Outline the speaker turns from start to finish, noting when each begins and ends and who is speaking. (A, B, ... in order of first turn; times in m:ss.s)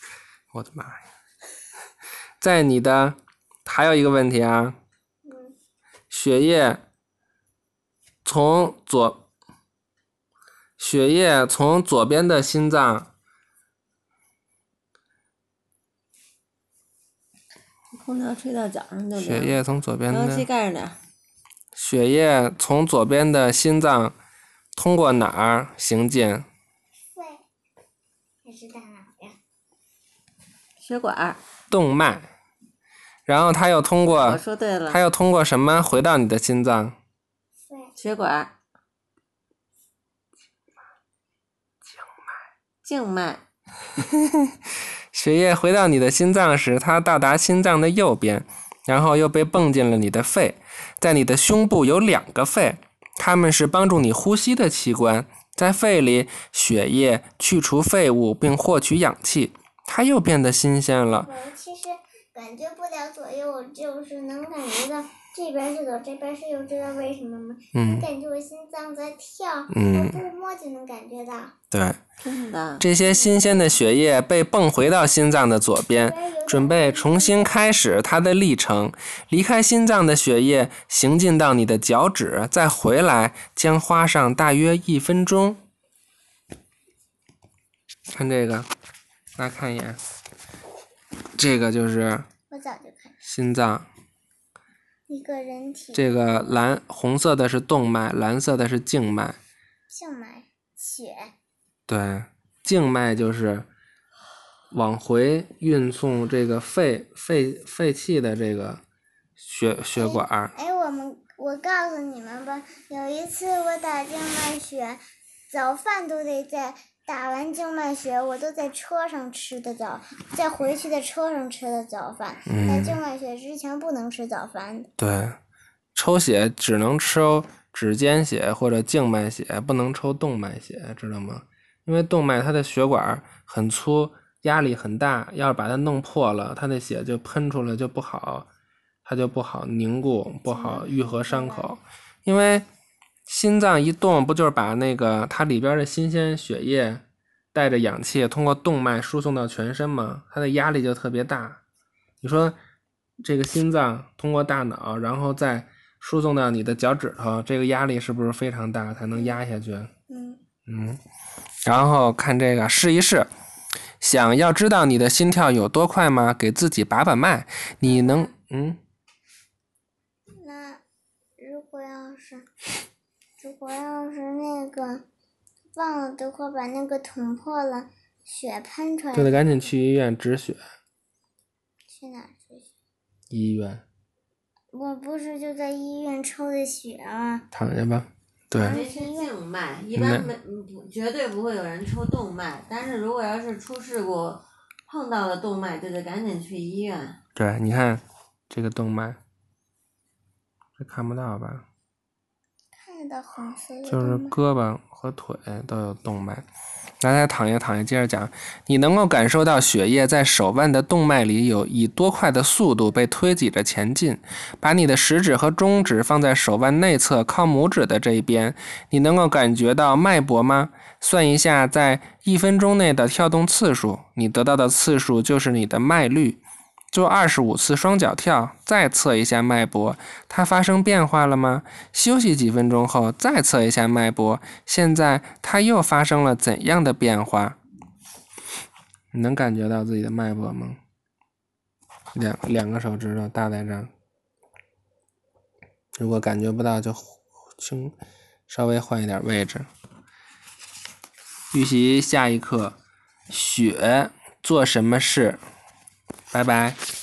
0:00.5-0:01.0 A
0:02.4-0:04.8 A
0:05.2-0:05.5 B
0:06.1-0:06.8 A
0:08.2-0:09.2 A
0:10.8-0:13.1 A
0:17.9-0:21.0 C
0:19.2-0:20.4 A
0:21.7-0:24.2 A
0:24.7-0:26.4 A
0:27.1-0:27.4 B
0:28.4-0:29.4 B
0:30.8-0:31.4 C
0:31.7-0:32.3 A
0:33.3-0:37.0 A
0:34.1-0:35.0 C
0:37.7-0:37.9 B
0:38.0-0:38.5 C
0:42.8-0:43.4 C
0:44.0-0:44.5 A
0:45.1-1:01.3 A
1:01.1-1:11.5 B
1:07.7-1:08.1 A
1:09.7-1:10.2 A
1:11.7-1:12.0 A
1:12.2-1:12.8 C
1:12.8-1:25.6 A
1:13.0-1:13.7 B
1:15.9-1:17.7 B
1:28.1-1:28.7 A
1:29.4-1:30.0 A
1:31.4-1:32.3 A
1:32.5-1:33.2 B
1:33.2-1:33.9 A
1:35.1-1:36.4 B
1:35.9-1:39.4 A
1:39.9-1:41.3 B
1:41.9-1:43.7 A
1:44.7-1:48.8 A
1:49.4-1:50.5 A
1:50.0-2:04.9 B
2:02.5-2:03.0 A
2:05.0-2:05.4 A
2:05.9-2:18.5 A
2:19.0-2:22.6 A
2:20.4-2:21.8 B
2:23.3-2:31.6 A
2:32.2-2:32.6 A
2:33.2-2:39.9 A
2:39.1-2:39.4 B
2:40.1-2:40.4 B
2:40.7-2:41.0 A
2:41.6-2:43.3 A
2:44.0-2:48.8 A
2:47.8-2:48.3 B
2:50.4-2:50.8 B
2:51.4-2:52.5 B
2:53.4-2:55.0 B
2:55.8-2:59.7 B
2:59.1-3:00.6 A
3:01.9-3:02.7 B
3:03.3-3:03.8 A
3:04.7-3:07.5 B
3:07.5-3:08.8 A
3:08.6-3:09.3 B
3:08.6-3:17.2 C
3:09.9-3:10.3 A
3:17.4-3:19.2 A
3:20.8-3:21.6 A
3:22.8-3:24.4 B
3:23.8-3:26.4 A
3:27.0-3:46.4 A
3:46.9-3:57.6 A
3:59.1-4:00.8 A
4:02.1-4:03.9 A
4:06.0-4:07.9 A
4:08.5-4:09.7 A
4:11.5-4:12.8 A
4:13.3-4:15.4 A
4:16.3-4:16.8 A